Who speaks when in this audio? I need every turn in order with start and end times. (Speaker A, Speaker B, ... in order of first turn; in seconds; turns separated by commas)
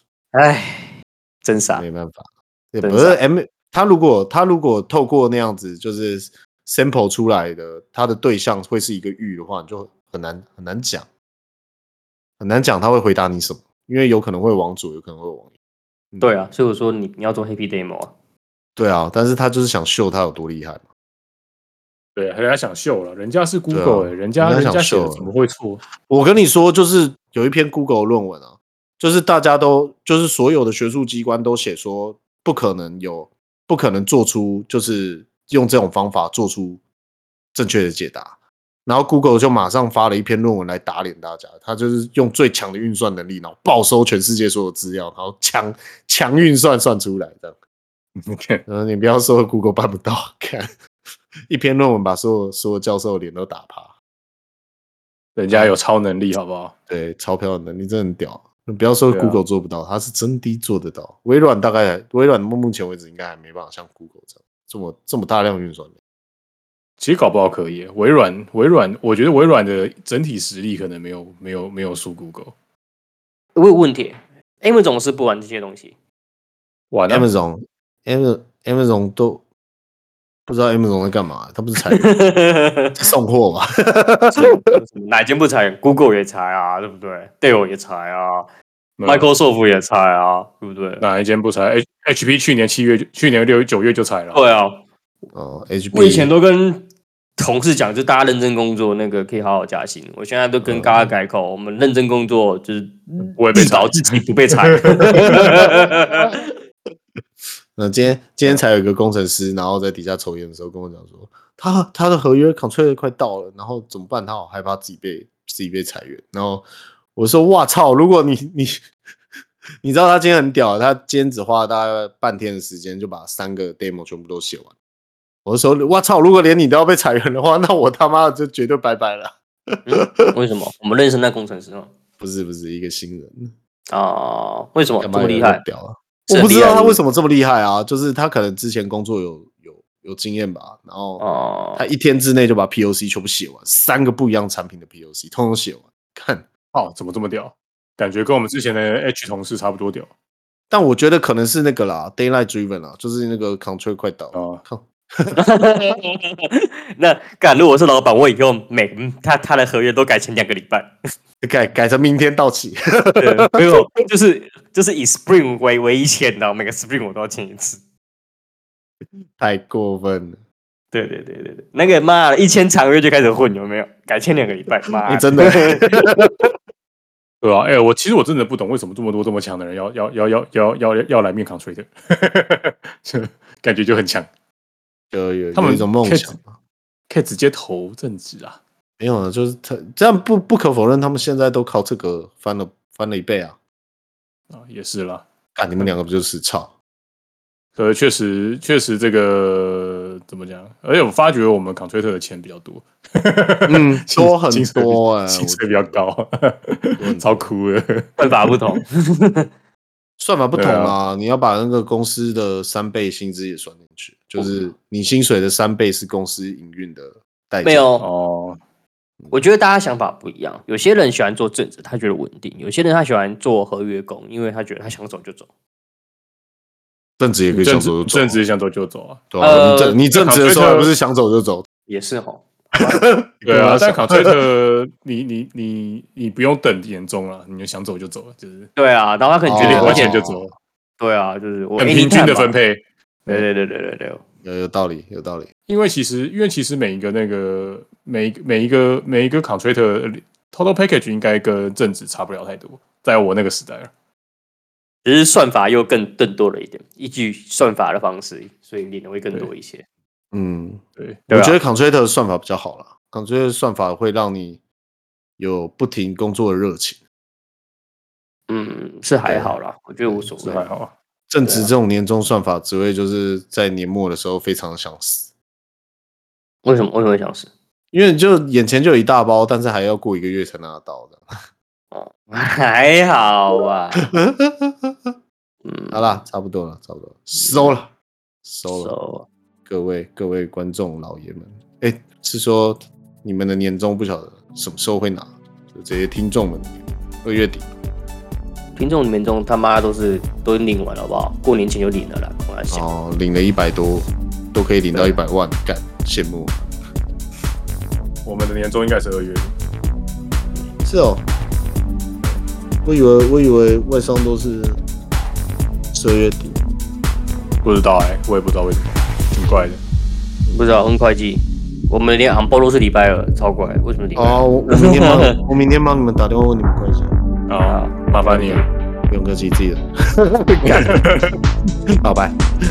Speaker A: 0.3-1.9, Speaker B: 1.7-11.1, Speaker A: 2.8-3.2, Speaker B: 12.4-15.5, Speaker B: 16.1-16.4, Speaker A: 16.2-18.1, Speaker B: 18.8-20.8, Speaker C: 22.2-25.8, Speaker B: 23.7-25.3, Speaker B: 26.0-36.8, Speaker B: 37.5-47.6, Speaker C: 48.3-48.6, Speaker B: 48.7-50.7, Speaker B: 51.5-53.9, Speaker C: 55.4-56.7, Speaker B: 56.9-66.0, Speaker C: 59.1-59.4, Speaker C: 67.0-72.5, Speaker A: 73.5-75.9, Speaker C: 76.9-77.3, Speaker B: 77.1-79.4, Speaker B: 80.5-82.2, Speaker A: 81.8-83.0, Speaker B: 83.0-84.6, Speaker A: 84.4-88.5, Speaker C: 89.0-89.3, Speaker A: 89.0-91.0, Speaker C: 91.0-94.5, Speaker A: 94.3-94.8, Speaker B: 95.3-96.3, Speaker A: 95.9-96.8, Speaker A: 97.4-106.5, Speaker B: 100.6-101.1, Speaker C: 103.4-104.2, Speaker C: 104.8-105.7, Speaker B: 105.3-106.3, Speaker B: 107.8-118.8, Speaker B: 119.8-124.7, Speaker B: 125.5-130.3, Speaker A: 129.9-131.9, Speaker B: 132.2-133.5, Speaker A: 133.9-135.6, Speaker B: 135.0-141.2, Speaker A: 136.3-137.0, Speaker A: 141.2-141.9, Speaker B: 141.8-146.5, Speaker C: 146.7-150.1, Speaker B: 150.7-155.4, Speaker C: 154.3-154.6, Speaker A: 155.3-160.9, Speaker B: 161.4-163.8, Speaker A: 163.2-167.8, Speaker B: 169.0-170.4, Speaker A: 170.9-176.2, Speaker B: 175.1-176.4, Speaker C: 177.4-184.3, Speaker B: 185.1-186.6, Speaker C: 185.6-186.4, Speaker C: 187.1-188.6, Speaker B: 189.0-193.6, Speaker C: 194.5-195.2, Speaker B: 195.6-196.7, Speaker C: 197.8-208.8, Speaker B: 203.7-206.0, Speaker B: 207.0-207.5, Speaker A: 208.2-209.5, Speaker B: 210.2-217.9, Speaker C: 210.6-210.9, Speaker A: 217.6-218.1, Speaker C: 218.0-218.6, Speaker A: 219.3-225.5, Speaker B: 227.2-228.4, Speaker C: 227.5-229.2, Speaker B: 229.3-231.7, Speaker A: 229.4-230.0, Speaker C: 230.1-230.9, Speaker A: 231.9-233.0, Speaker B: 232.8-234.4, Speaker C: 233.5-238.7, Speaker A: 238.8-240.2, Speaker B: 239.5-240.4, Speaker C: 239.6-240.5, Speaker A: 241.0-242.5, Speaker C: 241.8-243.4, Speaker A: 243.3-244.2, Speaker B: 244.4-245.5, Speaker C: 245.7-253.9, Speaker A: 255.1-259.8, Speaker B: 260.3-264.6, Speaker C: 261.0-261.2, Speaker A: 261.3-261.6, Speaker B: 265.4-267.0, Speaker A: 268.5-270.7, Speaker B: 269.2-269.6, Speaker B: 270.1-270.4, Speaker C: 270.4-270.9, Speaker B: 271.3-275.3, Speaker A: 271.4-271.7, Speaker A: 276.6-277.5, Speaker B: 277.9-281.2, Speaker A: 281.9-284.1, Speaker B: 284.0-285.1, Speaker A: 285.6-286.2, Speaker B: 285.9-287.9, Speaker A: 287.4-287.8, Speaker B: 288.4-288.9, Speaker A: 288.7-289.3, Speaker B: 289.7-297.7, Speaker A: 298.8-302.9, Speaker B: 302.7-306.6, Speaker C: 308.2-309.5, Speaker B: 310.8-311.2, Speaker B: 312.9-314.8, Speaker B: 315.9-316.6, Speaker C: 317.6-319.8, Speaker A: 320.5-325.4, Speaker B: 324.2-327.1, Speaker C: 327.5-328.6, Speaker A: 327.7-328.6, Speaker B: 329.1-331.0, Speaker C: 330.7-331.4, Speaker B: 332.0-332.4